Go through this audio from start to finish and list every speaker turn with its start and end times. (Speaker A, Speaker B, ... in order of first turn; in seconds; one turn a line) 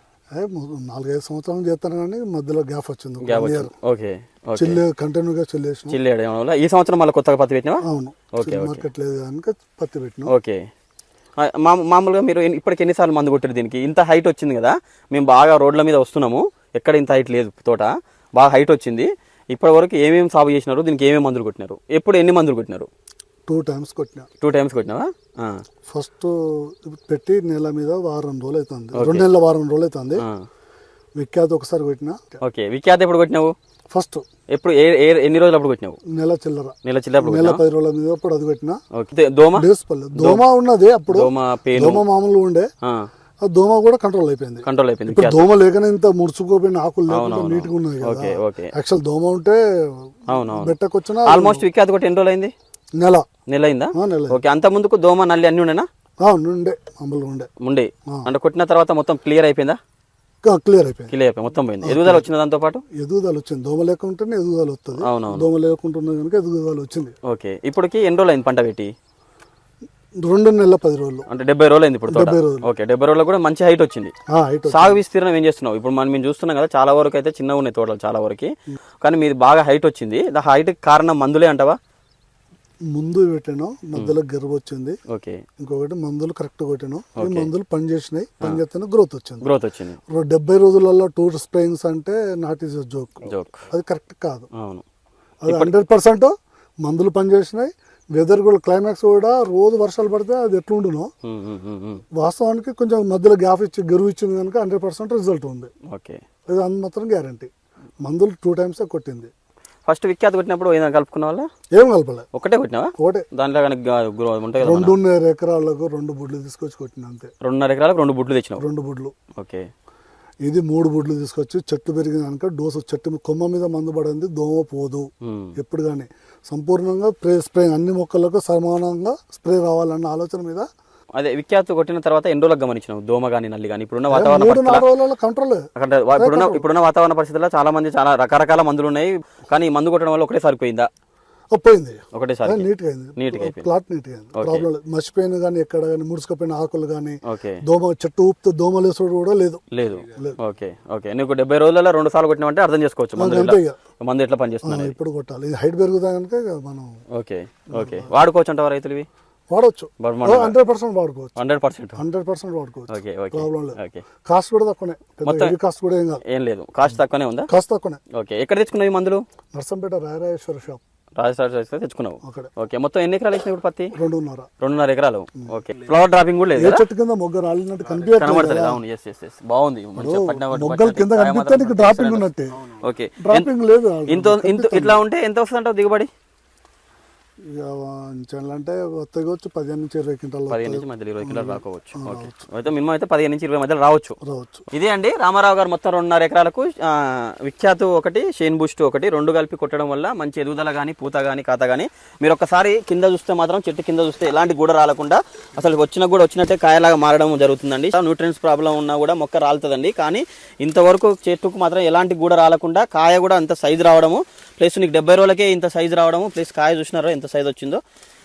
Speaker A: 0.3-3.7
Speaker B: 3.2-4.8
Speaker A: 4.5-6.0
Speaker B: 5.9-7.8
Speaker A: 7.8-10.3
Speaker B: 8.3-8.9
Speaker B: 10.3-10.6
Speaker B: 11.4-22.9
Speaker A: 23.5-24.3
Speaker B: 24.4-25.6
Speaker A: 25.9-30.2
Speaker B: 28.9-29.3
Speaker A: 31.2-32.4
Speaker B: 32.4-33.5
Speaker A: 33.9-34.2
Speaker B: 34.5-36.0
Speaker A: 36.1-38.8
Speaker B: 36.8-37.6
Speaker B: 38.9-40.4
Speaker A: 39.5-42.7
Speaker B: 41.1-42.0
Speaker A: 43.4-51.6
Speaker B: 44.6-45.4
Speaker B: 47.1-48.7
Speaker B: 50.3-50.7
Speaker B: 51.2-52.5
Speaker A: 53.0-53.3
Speaker B: 53.5-55.9
Speaker A: 54.0-54.4
Speaker A: 56.2-57.5
Speaker B: 57.6-59.8
Speaker A: 60.4-61.1
Speaker B: 61.1-62.8
Speaker A: 61.8-62.2
Speaker A: 62.9-67.1
Speaker B: 65.0-65.5
Speaker B: 67.2-68.9
Speaker A: 70.2-71.3
Speaker B: 71.3-74.1
Speaker A: 72.1-72.7
Speaker A: 74.3-75.0
Speaker B: 74.7-78.5
Speaker B: 79.0-81.8
Speaker A: 82.9-85.0
Speaker B: 85.1-85.4
Speaker A: 85.6-89.5
Speaker B: 87.2-87.5
Speaker B: 89.4-90.0
Speaker A: 90.1-94.5
Speaker B: 93.3-93.6
Speaker B: 94.5-94.8
Speaker A: 95.4-101.1
Speaker B: 95.5-95.7
Speaker B: 101.2-102.0
Speaker A: 102.2-105.7
Speaker B: 105.9-106.2
Speaker A: 106.5-107.5
Speaker A: 108.0-109.3
Speaker B: 109.9-111.5
Speaker A: 111.7-112.3
Speaker B: 112.3-115.0
Speaker A: 113.0-113.3
Speaker A: 114.6-117.3
Speaker B: 117.4-118.6
Speaker A: 118.6-119.1
Speaker B: 119.3-119.7
Speaker A: 120.4-130.7
Speaker B: 125.2-125.5
Speaker B: 131.2-134.8
Speaker A: 134.1-136.6
Speaker B: 135.8-140.9
Speaker A: 141.5-150.4
Speaker B: 142.1-143.7
Speaker B: 144.3-144.7
Speaker B: 147.2-147.6
Speaker B: 149.7-155.0
Speaker A: 153.2-153.8
Speaker A: 154.6-156.9
Speaker B: 157.1-159.1
Speaker A: 157.7-158.1
Speaker A: 159.5-161.3
Speaker B: 160.0-160.5
Speaker B: 161.3-162.0
Speaker A: 162.0-166.2
Speaker B: 162.9-164.0
Speaker B: 165.2-165.5
Speaker B: 166.3-167.5
Speaker A: 167.5-168.0
Speaker B: 168.1-169.2
Speaker A: 169.5-170.8
Speaker B: 171.2-173.9
Speaker A: 172.2-172.5
Speaker A: 173.9-174.5
Speaker B: 174.6-176.8
Speaker A: 176.6-178.8
Speaker B: 178.1-182.3
Speaker A: 179.9-182.7
Speaker B: 182.8-183.5
Speaker A: 183.2-185.0
Speaker B: 184.1-186.1
Speaker A: 187.5-192.4
Speaker B: 190.5-194.2
Speaker A: 194.2-194.7
Speaker B: 194.7-217.8